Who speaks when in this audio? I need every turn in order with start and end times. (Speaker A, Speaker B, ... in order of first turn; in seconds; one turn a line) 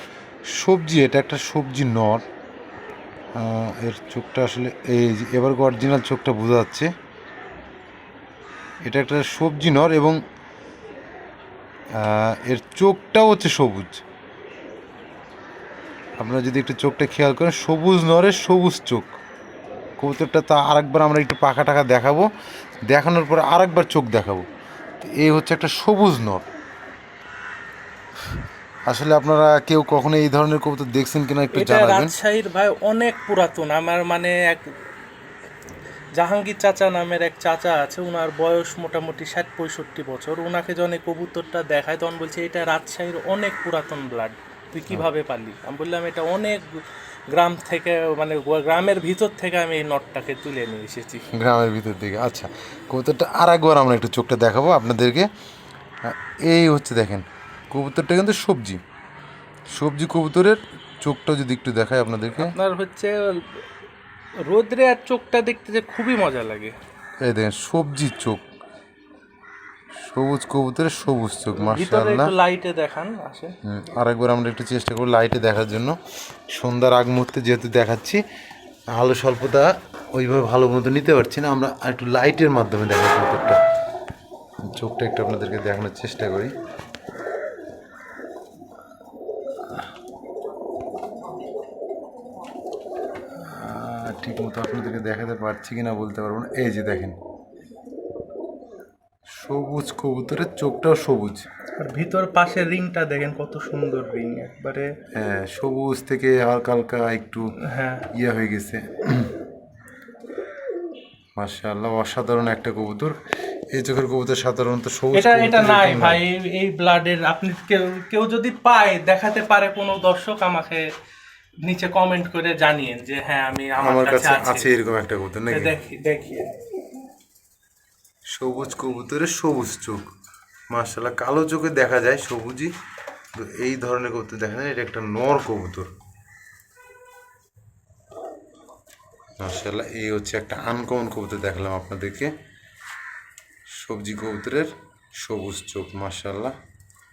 Speaker A: 0.6-2.2
Speaker A: 3.4-6.9
Speaker A: 8.8-10.2
Speaker A: 12.0-14.0
Speaker A: 16.2-19.1
Speaker A: 20.0-22.3
Speaker A: 22.9-24.5
Speaker A: 25.0-26.5
Speaker A: 28.9-32.1
Speaker B: 31.5-34.6
Speaker B: 36.2-51.2
Speaker A: 51.3-55.3
Speaker A: 56.0-58.8
Speaker A: 59.8-62.5
Speaker B: 62.4-63.6
Speaker B: 64.5-66.8
Speaker A: 67.2-68.4
Speaker A: 70.0-72.3
Speaker B: 71.6-73.5
Speaker A: 73.6-76.0
Speaker A: 76.5-78.2
Speaker A: 79.0-83.6
Speaker A: 84.6-86.5
Speaker A: 93.4-97.2
Speaker A: 99.4-101.5
Speaker B: 101.8-104.9
Speaker A: 105.2-107.5
Speaker B: 107.6-108.1
Speaker A: 108.1-109.3
Speaker A: 111.4-113.2
Speaker A: 113.7-116.2
Speaker B: 115.1-120.9
Speaker B: 121.6-124.7
Speaker A: 123.8-125.7
Speaker B: 125.5-126.5
Speaker A: 128.3-130.1
Speaker A: 130.7-132.7
Speaker A: 133.4-135.9
Speaker A: 139.4-142.3
Speaker A: 143.8-146.6